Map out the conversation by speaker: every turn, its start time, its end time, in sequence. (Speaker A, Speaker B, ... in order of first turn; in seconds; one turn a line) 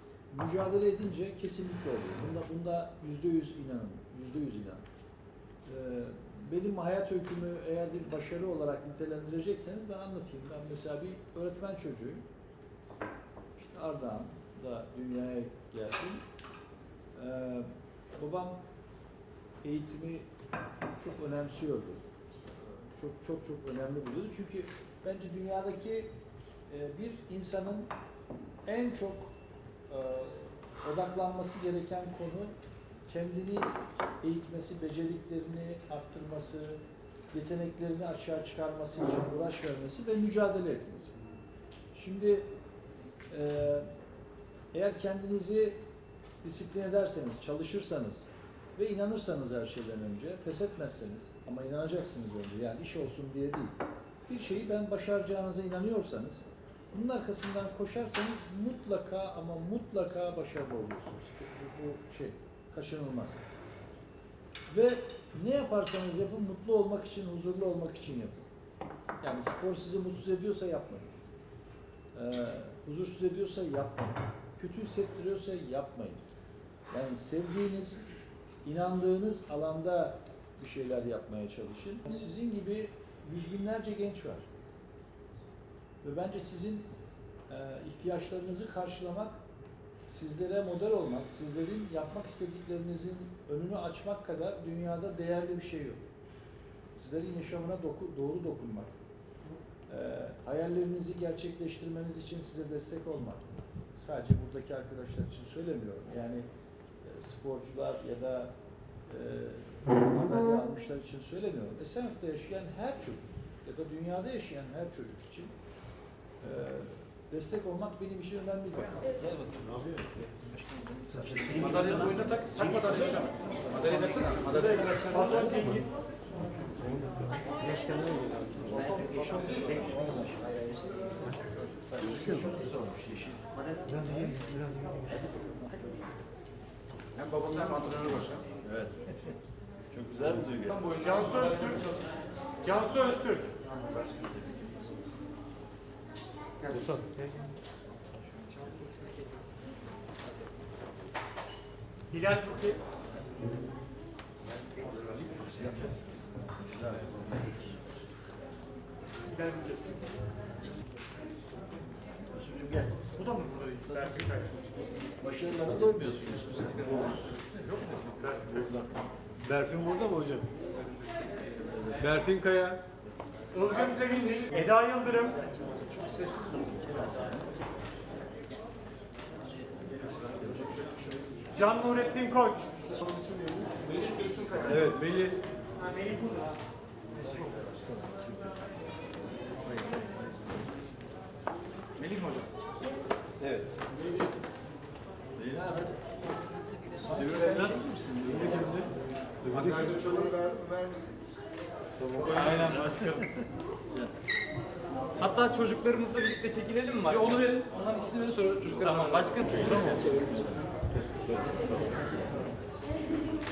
Speaker A: 0.3-4.8
Speaker A: 5.7-12.2
Speaker A: 13.6-16.2
Speaker A: 17.1-18.6
Speaker A: 19.6-20.3
Speaker A: 21.0-26.1
Speaker A: 26.7-27.9
Speaker A: 28.6-29.3
Speaker A: 29.9-32.5
Speaker A: 33.0-36.8
Speaker A: 37.3-41.3
Speaker A: 41.9-42.5
Speaker A: 43.3-43.9
Speaker A: 44.7-45.8
Speaker A: 46.4-63.4
Speaker A: 64.7-68.5
Speaker A: 69.2-71.1
Speaker A: 72.1-76.2
Speaker A: 76.9-78.0
Speaker A: 78.6-84.5
Speaker A: 86.0-86.9
Speaker A: 87.5-89.4
Speaker A: 90.1-96.0
Speaker A: 97.0-98.9
Speaker A: 99.9-106.4
Speaker A: 107.0-108.5
Speaker A: 109.1-115.5
Speaker A: 116.4-119.6
Speaker B: 119.6-120.0
Speaker C: 121.5-124.8
Speaker D: 124.1-125.9
Speaker A: 128.7-130.4
Speaker C: 128.8-129.9
Speaker C: 130.5-130.8
Speaker A: 131.8-133.4
Speaker C: 133.8-134.3
Speaker C: 137.2-138.4
Speaker A: 138.7-138.9
Speaker A: 139.9-140.6
Speaker B: 140.1-140.9
Speaker D: 140.7-141.9
Speaker D: 142.6-143.5
Speaker B: 146.7-147.3
Speaker D: 152.1-152.8
Speaker A: 155.2-155.9
Speaker A: 156.6-157.5
Speaker D: 159.3-159.9
Speaker A: 162.3-163.0
Speaker D: 163.2-164.7
Speaker A: 163.9-164.2
Speaker A: 165.2-167.3
Speaker D: 167.5-168.6
Speaker A: 168.5-168.9
Speaker B: 169.4-170.5
Speaker B: 171.8-172.8
Speaker D: 173.5-175.5
Speaker D: 181.5-183.0
Speaker B: 183.0-185.4
Speaker A: 192.0-192.3
Speaker B: 193.4-193.7
Speaker A: 195.4-195.9
Speaker A: 196.9-198.8
Speaker B: 197.1-198.9
Speaker B: 199.4-200.7
Speaker B: 202.0-202.8
Speaker E: 202.2-203.3
Speaker E: 205.2-207.6
Speaker C: 207.5-209.0
Speaker E: 208.7-210.2
Speaker C: 209.9-210.2
Speaker B: 211.3-211.9